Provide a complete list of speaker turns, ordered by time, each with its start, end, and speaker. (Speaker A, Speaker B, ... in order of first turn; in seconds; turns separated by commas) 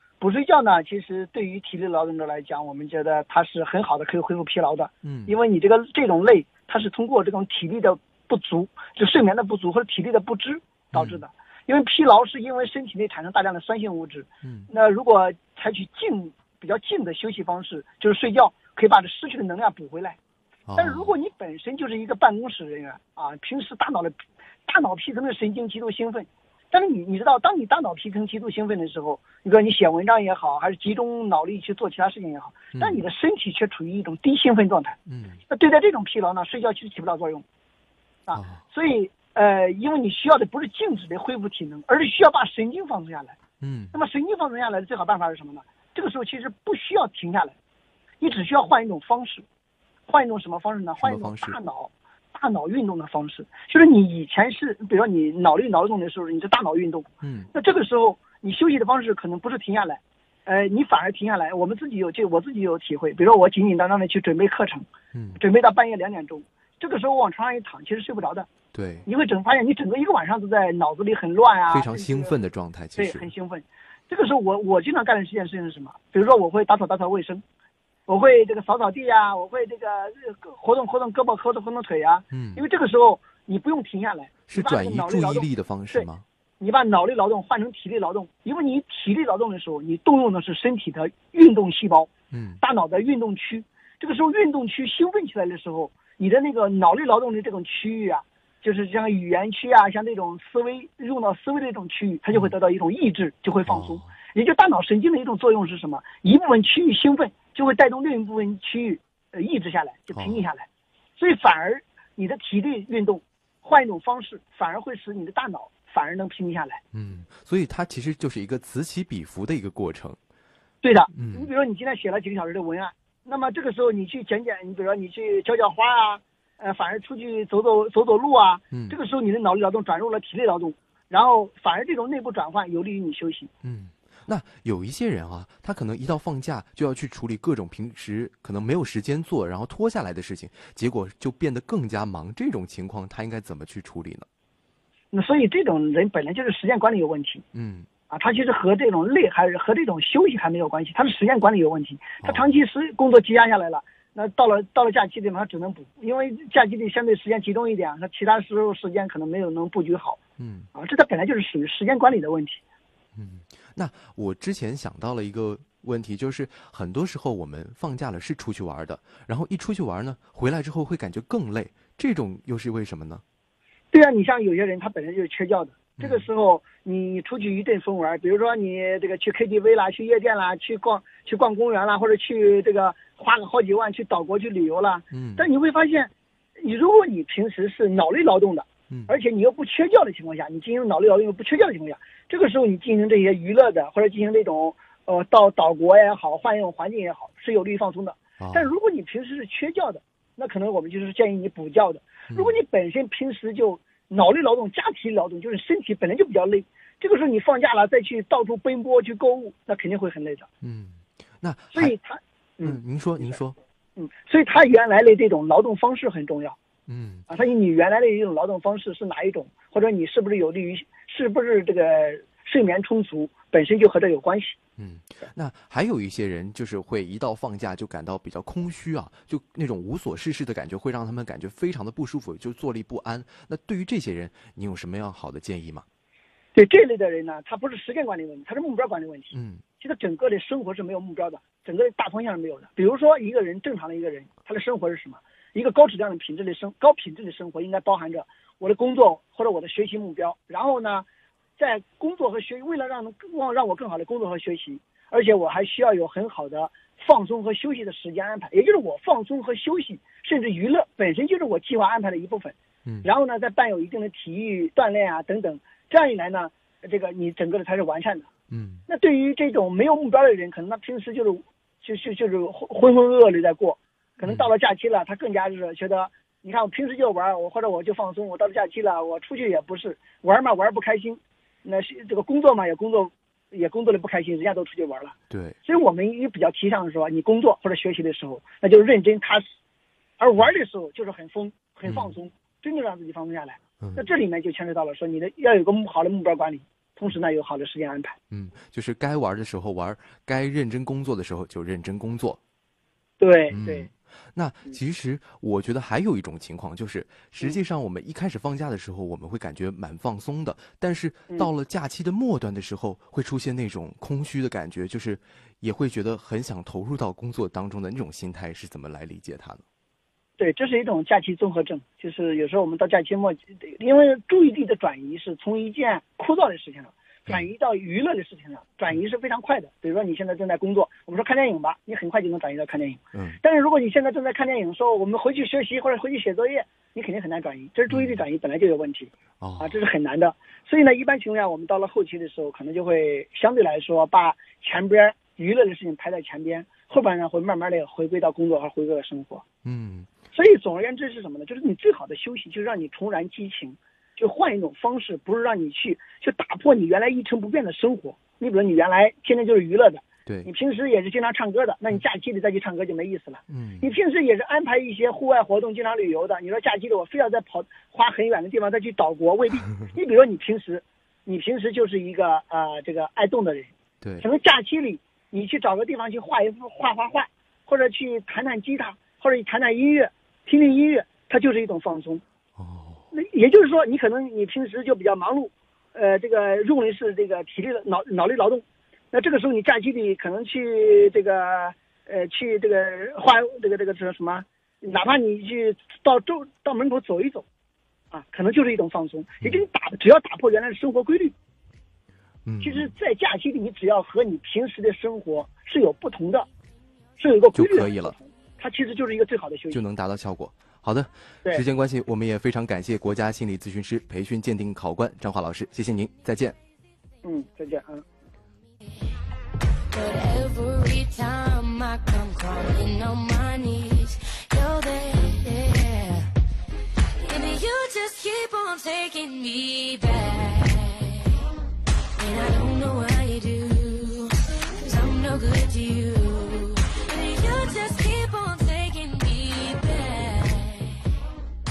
Speaker A: 0.2-20.2, Speaker B: 5.0-5.3, Speaker B: 10.9-11.2, Speaker B: 14.4-14.7, Speaker B: 20.7-21.1, Speaker A: 20.8-37.4, Speaker B: 32.8-33.0, Speaker B: 35.1-35.4, Speaker A: 38.3-43.4, Speaker B: 38.3-38.6, Speaker B: 43.6-43.9, Speaker A: 43.9-47.5, Speaker A: 48.2-49.4, Speaker A: 50.1-68.5, Speaker B: 51.0-51.6, Speaker B: 57.2-57.5, Speaker B: 65.1-65.4, Speaker B: 68.7-69.0, Speaker A: 69.0-72.3, Speaker B: 71.7-73.3, Speaker A: 73.0-77.4, Speaker A: 78.1-86.1, Speaker B: 82.3-82.6, Speaker B: 84.5-86.2, Speaker A: 86.6-92.1, Speaker B: 92.3-92.6, Speaker A: 92.6-110.7, Speaker B: 103.7-104.1, Speaker B: 110.2-110.5, Speaker A: 111.2-116.8, Speaker B: 116.9-120.2, Speaker A: 120.8-133.5, Speaker B: 121.1-121.5, Speaker B: 133.6-144.3, Speaker A: 145.1-147.4, Speaker B: 147.5-147.9, Speaker A: 148.1-160.2, Speaker B: 160.4-160.7, Speaker A: 160.7-162.6, Speaker B: 163.2-173.2, Speaker A: 173.9-210.5, Speaker B: 176.0-176.2, Speaker B: 185.1-185.4, Speaker B: 198.4-198.7, Speaker B: 210.6-211.9, Speaker A: 211.7-213.3, Speaker B: 212.6-213.6, Speaker A: 214.0-216.6, Speaker B: 216.9-217.3, Speaker A: 217.3-224.6, Speaker B: 224.8-235.8, Speaker A: 236.5-251.0, Speaker B: 239.3-239.6, Speaker A: 251.6-268.3, Speaker B: 268.5-268.9, Speaker A: 268.9-289.5, Speaker B: 285.3-285.6, Speaker A: 290.2-298.2, Speaker B: 291.9-292.1, Speaker B: 298.3-302.4, Speaker A: 303.2-303.9, Speaker B: 303.5-319.6, Speaker A: 320.4-349.4, Speaker B: 337.9-338.2, Speaker B: 339.4-339.8, Speaker B: 349.6-350.1, Speaker A: 350.3-382.2, Speaker B: 363.5-363.9, Speaker B: 382.6-383.0, Speaker A: 383.1-397.4, Speaker A: 398.1-401.3, Speaker B: 402.4-402.9, Speaker A: 402.6-406.5, Speaker A: 407.2-409.8, Speaker B: 407.5-408.1, Speaker B: 409.7-416.6, Speaker A: 417.2-418.0, Speaker C: 419.9-426.3, Speaker C: 427.1-431.4, Speaker C: 432.2-441.1